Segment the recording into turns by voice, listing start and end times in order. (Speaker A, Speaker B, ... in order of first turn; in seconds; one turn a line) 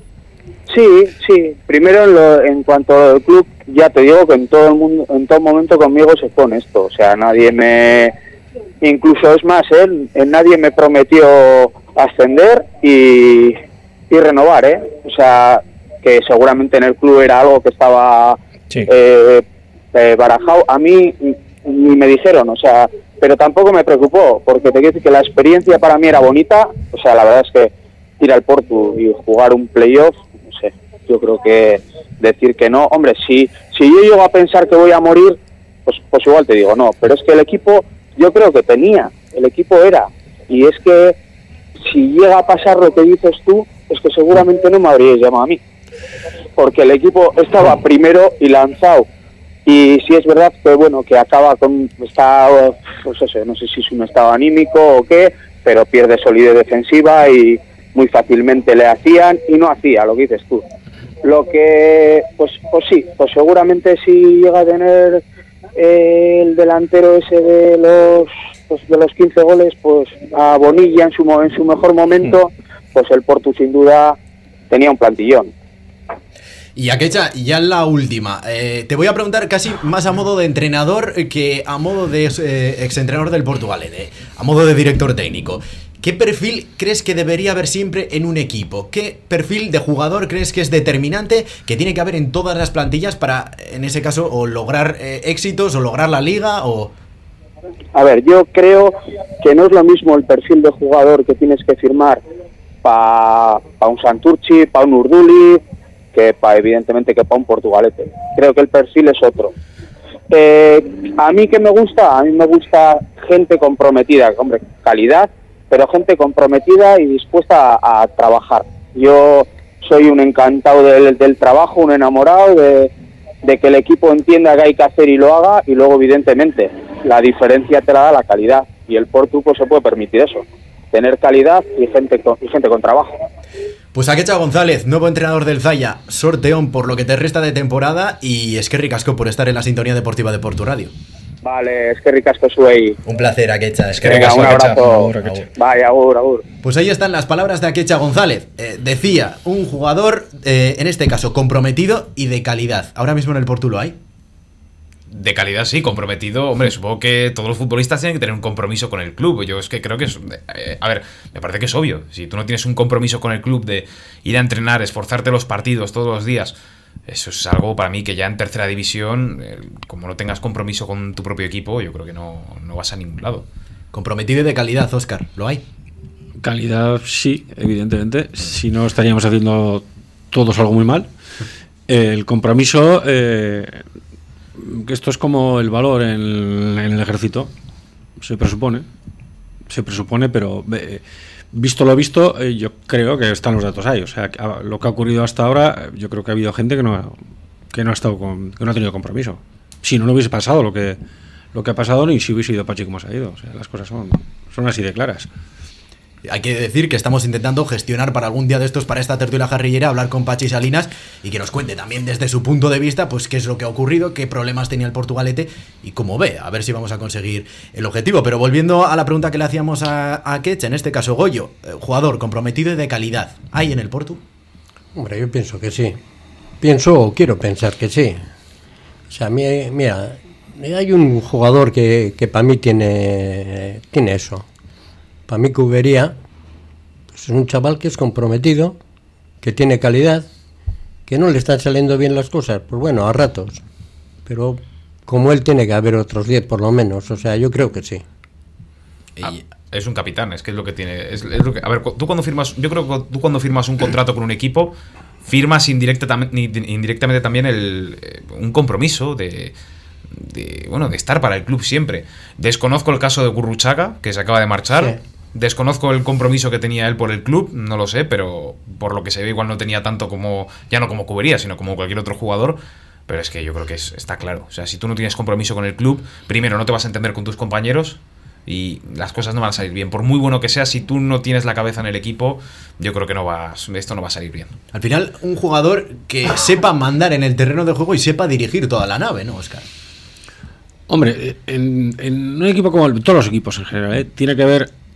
Speaker A: 0.7-8.1
Speaker A: 8.8-13.6
Speaker A: 14.1-41.2
Speaker A: 41.8-45.6
Speaker A: 46.6-49.1
Speaker A: 49.7-60.6
Speaker A: 61.2-65.2
Speaker A: 65.8-74.2
Speaker A: 74.7-75.5
Speaker B: 76.8-96.9
Speaker A: 98.0-102.2
Speaker A: 102.8-105.6
Speaker A: 106.1-109.5
Speaker A: 110.3-122.9
Speaker A: 123.4-133.2
Speaker B: 133.9-140.9
Speaker A: 141.4-143.0
Speaker B: 143.1-145.4
Speaker A: 144.0-146.4
Speaker C: 144.1-145.4
Speaker B: 146.6-154.0
Speaker D: 155.1-166.5
Speaker D: 167.1-173.5
Speaker B: 173.9-175.6
Speaker C: 176.4-181.1
Speaker C: 181.9-183.8
Speaker C: 184.6-187.5
Speaker C: 188.2-188.9
Speaker C: 189.7-197.1
Speaker C: 197.7-201.0
Speaker C: 201.5-205.3
Speaker B: 206.2-224.2
Speaker E: 224.9-226.0
Speaker E: 226.6-228.3
Speaker E: 229.1-234.4
Speaker E: 235.3-236.2
Speaker E: 237.1-238.8
Speaker E: 239.4-240.3
Speaker E: 241.1-243.6
Speaker E: 244.3-248.0
Speaker D: 249.2-259.5
Speaker D: 260.1-284.6
Speaker B: 284.7-289.6
Speaker C: 290.9-294.7